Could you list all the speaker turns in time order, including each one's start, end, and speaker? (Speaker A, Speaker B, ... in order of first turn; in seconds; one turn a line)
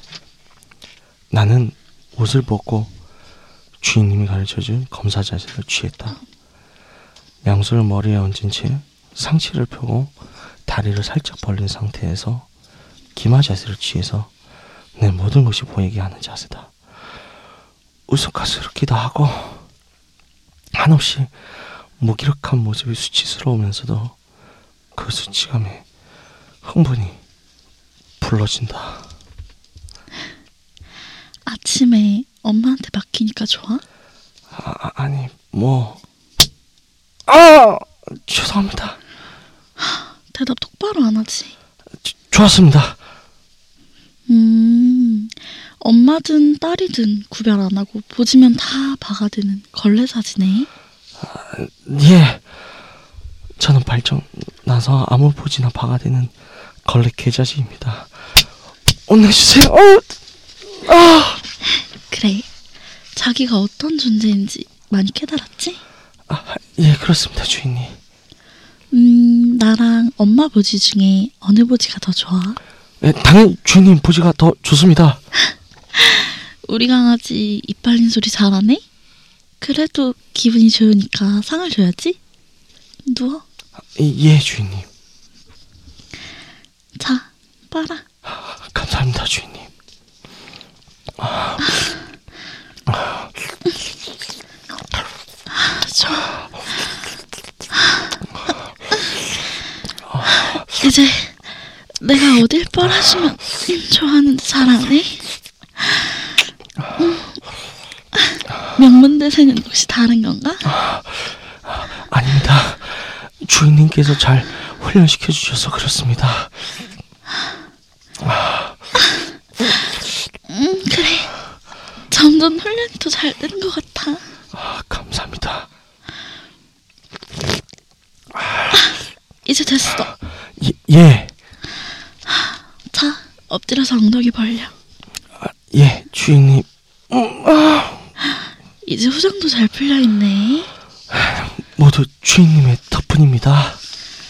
Speaker A: 1.3-2.9
Speaker A: 3.8-6.2
Speaker A: 7.4-10.1
Speaker A: 10.7-12.4
Speaker A: 13.1-14.3
Speaker A: 14.9-16.7
Speaker A: 18.1-19.6
Speaker A: 20.7-21.3
Speaker A: 22.0-24.1
Speaker A: 24.9-25.8
Speaker A: 26.6-27.2
Speaker A: 28.2-29.0
Speaker B: 31.4-33.8
Speaker A: 34.5-36.0
Speaker A: 37.3-39.0
Speaker B: 39.8-41.5
Speaker A: 42.0-43.0
Speaker B: 44.3-50.7
Speaker A: 51.2-52.4
Speaker A: 53.6-56.3
Speaker A: 56.8-58.1
Speaker A: 59.1-60.1
Speaker A: 60.7-61.4
Speaker B: 62.1-62.5
Speaker B: 63.1-65.8
Speaker A: 66.3-68.0
Speaker B: 68.9-72.6
Speaker A: 73.0-75.2
Speaker B: 76.0-78.8
Speaker B: 79.6-82.2
Speaker B: 83.0-83.4
Speaker A: 83.9-84.9
Speaker B: 87.0-88.0
Speaker A: 88.3-89.7
Speaker A: 91.2-91.9
Speaker A: 92.9-93.3
Speaker B: 95.5-96.3
Speaker A: 100.1-100.9
Speaker B: 100.8-101.3
Speaker B: 102.0-105.2
Speaker B: 105.8-106.1
Speaker B: 107.0-107.4
Speaker B: 108.1-110.7
Speaker A: 110.6-116.7
Speaker A: 118.2-118.8
Speaker B: 120.5-121.3
Speaker B: 122.1-124.2
Speaker A: 124.5-125.7
Speaker A: 128.3-128.9
Speaker B: 129.4-130.1
Speaker A: 130.6-131.3
Speaker B: 132.3-134.7
Speaker A: 135.4-138.1
Speaker B: 138.8-140.7
Speaker A: 141.1-143.8